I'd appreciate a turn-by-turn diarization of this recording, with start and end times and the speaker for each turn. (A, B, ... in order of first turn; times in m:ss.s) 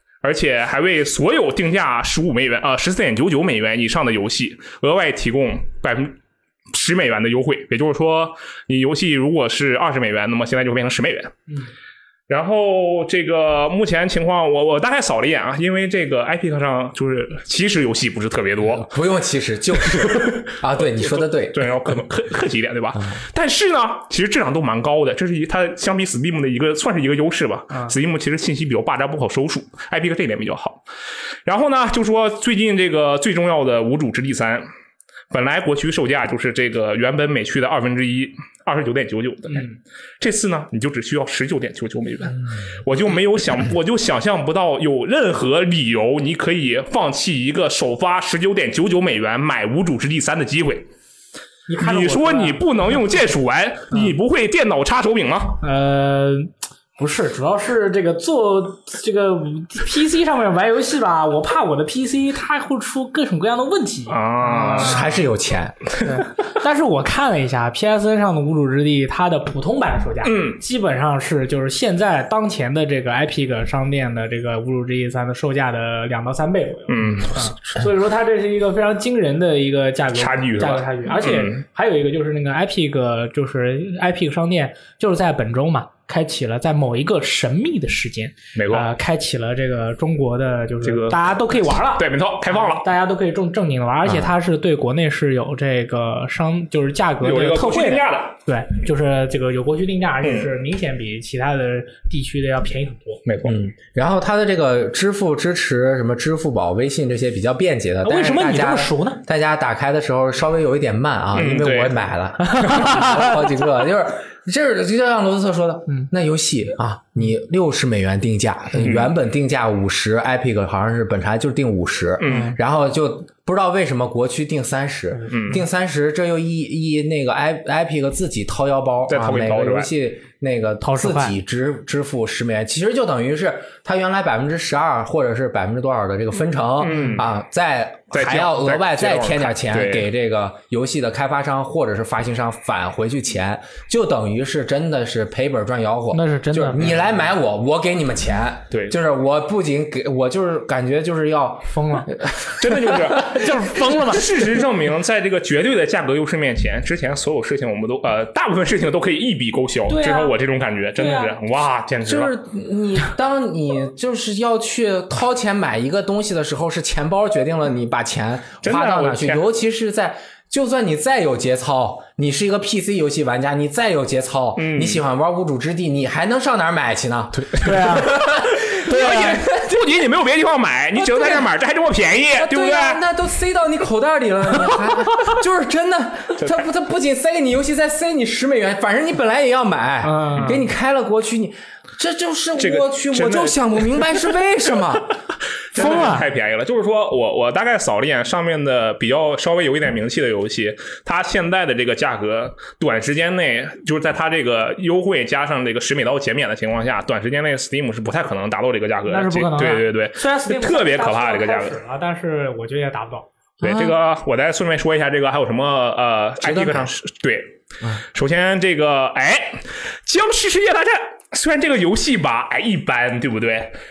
0:00.2-0:06.2 A
0:06.7-0:11.4 A
0:12.3-0:18.9 A
0:18.8-0:21.7 B
0:19.8-0:30.8 A
0:31.4-0:34.7 A
0:35.3-0:50.9 A
0:39.5-0:39.8 C
0:51.7-0:52.6 C
0:51.8-0:55.6 A
0:55.6-1:05.1 C
1:04.1-1:05.1 A
1:04.7-1:05.9 B
1:06.0-1:43.2 C
1:10.2-1:10.6 A
1:16.9-1:17.5 A
1:20.2-1:21.6 A
1:28.6-1:28.9 A
1:30.8-1:31.2 A
1:31.9-1:32.8 A
1:37.2-1:38.4 A
1:40.2-1:40.5 A
1:43.3-1:43.6 A
1:43.4-2:33.4 B
1:48.0-1:49.2 C
1:51.3-1:52.0 A
1:52.4-1:53.5 C
1:58.8-1:59.1 A
2:02.2-2:02.6 A
2:02.3-2:02.6 C
2:05.3-2:05.6 A
2:09.1-2:09.9 A
2:10.8-2:11.4 C
2:16.8-2:17.2 C
2:16.8-2:17.3 A
2:18.1-2:20.1 A
2:26.1-2:27.0 C
2:31.7-2:32.1 C
2:32.5-2:42.3 A
2:33.2-2:34.2 C
2:39.9-2:40.3 C
2:41.0-2:41.3 C
2:42.1-2:59.7 B
2:48.6-2:49.5 A
2:54.6-2:55.0 A
2:57.4-3:03.0 A
2:57.6-2:58.2 C
2:58.8-2:59.4 C
3:01.0-3:01.5 B
3:02.4-3:15.1 B
3:10.0-3:10.6 C
3:10.4-3:10.6 A
3:12.6-3:14.2 A
3:15.7-3:31.8 A
3:15.7-3:16.3 C
3:29.1-3:33.3 C
3:33.6-3:43.8 A
3:33.6-3:34.0 B
3:36.4-3:36.9 B